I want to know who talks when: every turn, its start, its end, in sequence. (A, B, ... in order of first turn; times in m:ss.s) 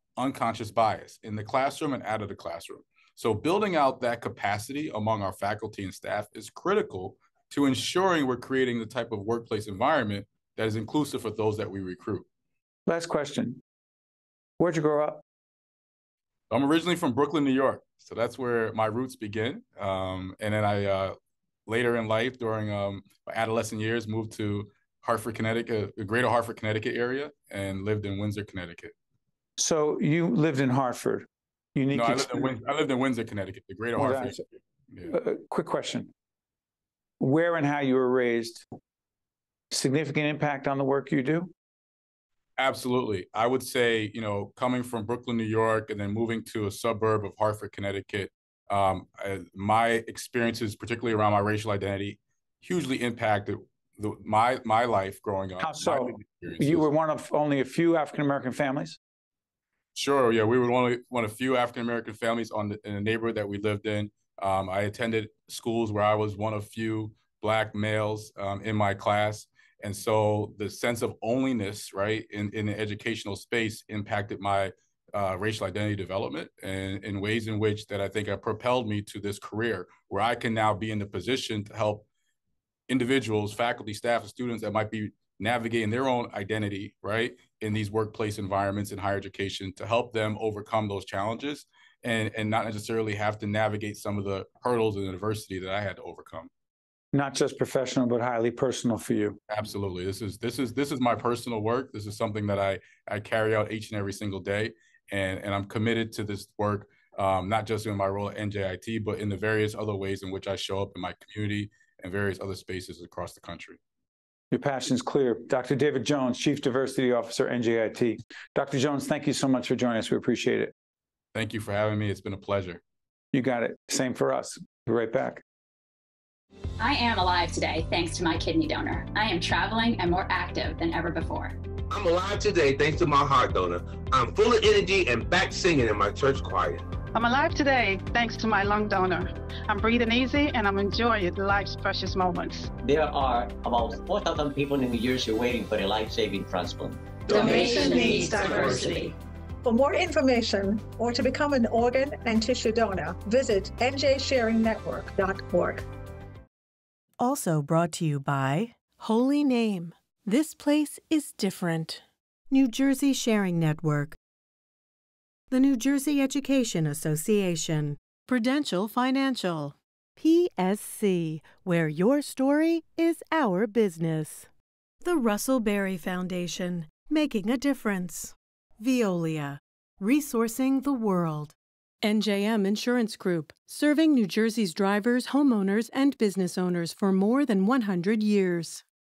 0:00.2-0:12.3 A
0:12.9-0:13.6 B
0:14.6-0:15.2 B
0:16.5-0:21.2 A
0:21.7-0:28.9 A
0:29.6-0:32.5 B
0:31.9-0:35.1 A
0:34.0-0:34.4 B
0:35.1-0:36.1 B
0:37.2-0:38.7 B
0:39.7-0:41.5 B
0:42.6-0:56.9 A
0:55.6-0:59.0 B
1:00.0-1:22.1 A
1:22.9-1:36.5 A
1:37.1-1:39.4 B
1:39.5-1:53.8 A
1:54.5-2:00.7 B
2:01.3-2:02.8 A
2:03.3-2:05.4 B
2:06.8-2:11.6 C
2:11.9-2:16.8 D
2:17.1-2:22.7 E
2:22.8-2:27.0 F
2:27.3-2:29.1 G
2:27.3-2:29.1 C
2:28.5-2:28.8 D
2:29.6-2:35.8 G
2:37.2-2:44.2 H
2:45.5-2:54.5 H
2:55.0-3:08.8 H